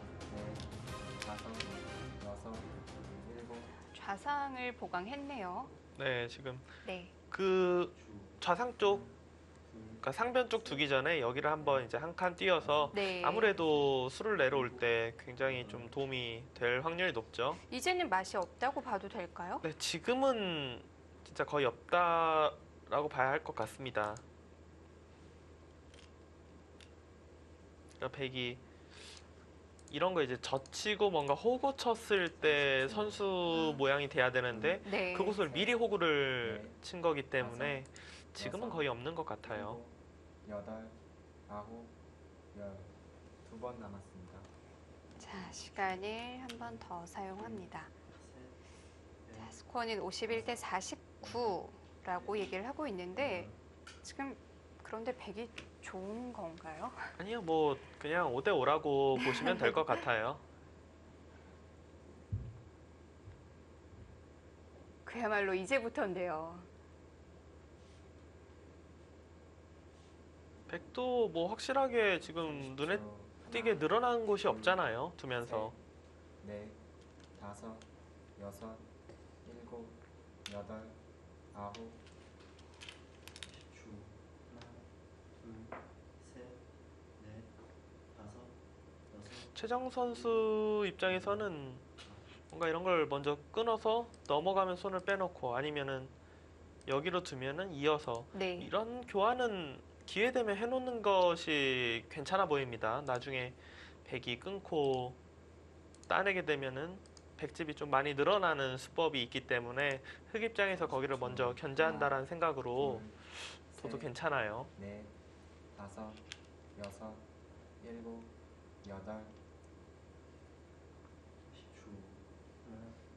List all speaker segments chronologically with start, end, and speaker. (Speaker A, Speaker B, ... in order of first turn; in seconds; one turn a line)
Speaker A: 0.3-3.7
Speaker B: 3.8-5.7
Speaker C: 6.0-6.7
Speaker B: 6.8-7.1
Speaker C: 7.3-9.1
Speaker D: 7.9-9.1
Speaker D: 9.7-10.0
Speaker C: 10.0-17.6
Speaker A: 10.6-10.9
Speaker A: 11.6-11.9
Speaker B: 12.9-13.6
Speaker D: 13.5-14.9
Speaker D: 15.4-16.0
Speaker B: 17.7-19.6
Speaker C: 19.6-24.2
Speaker C: 28.0-28.6
Speaker C: 29.9-39.8
Speaker A: 32.4-33.3
Speaker A: 34.5-35.8
Speaker B: 34.8-35.4
Speaker A: 36.4-36.8
Speaker A: 37.4-38.9
Speaker A: 39.4-42.0
Speaker A: 42.5-44.5
Speaker B: 45.2-47.9
Speaker D: 46.6-46.8
Speaker D: 47.4-48.6
Speaker D: 49.2-49.6
Speaker B: 49.3-53.5
Speaker D: 50.3-50.6
Speaker D: 51.2-52.6
Speaker D: 53.1-53.6
Speaker B: 54.0-57.1
Speaker C: 57.2-60.4
Speaker B: 59.1-60.0
Speaker B: 65.0-66.7
Speaker C: 70.7-75.7
Speaker A: 72.4-75.8
Speaker A: 76.4-76.8
Speaker A: 77.4-78.9
Speaker A: 79.4-81.0
Speaker A: 81.5-82.0
Speaker D: 83.4-86.6
Speaker D: 87.2-87.5
Speaker D: 88.1-88.6
Speaker D: 89.1-89.5
Speaker C: 89.5-91.9
Speaker D: 90.1-90.5
Speaker D: 91.0-92.3
Speaker C: 92.5-96.1
Speaker C: 96.9-105.2
Speaker B: 98.3-98.7
Speaker C: 106.1-114.7
Speaker A: 110.7-112.2
Speaker A: 112.7-113.2
Speaker A: 113.8-114.1
Speaker A: 114.8-115.1
Speaker A: 115.7-116.2
Speaker A: 116.8-117.3
Speaker A: 117.8-119.4
Speaker D: 121.5-123.0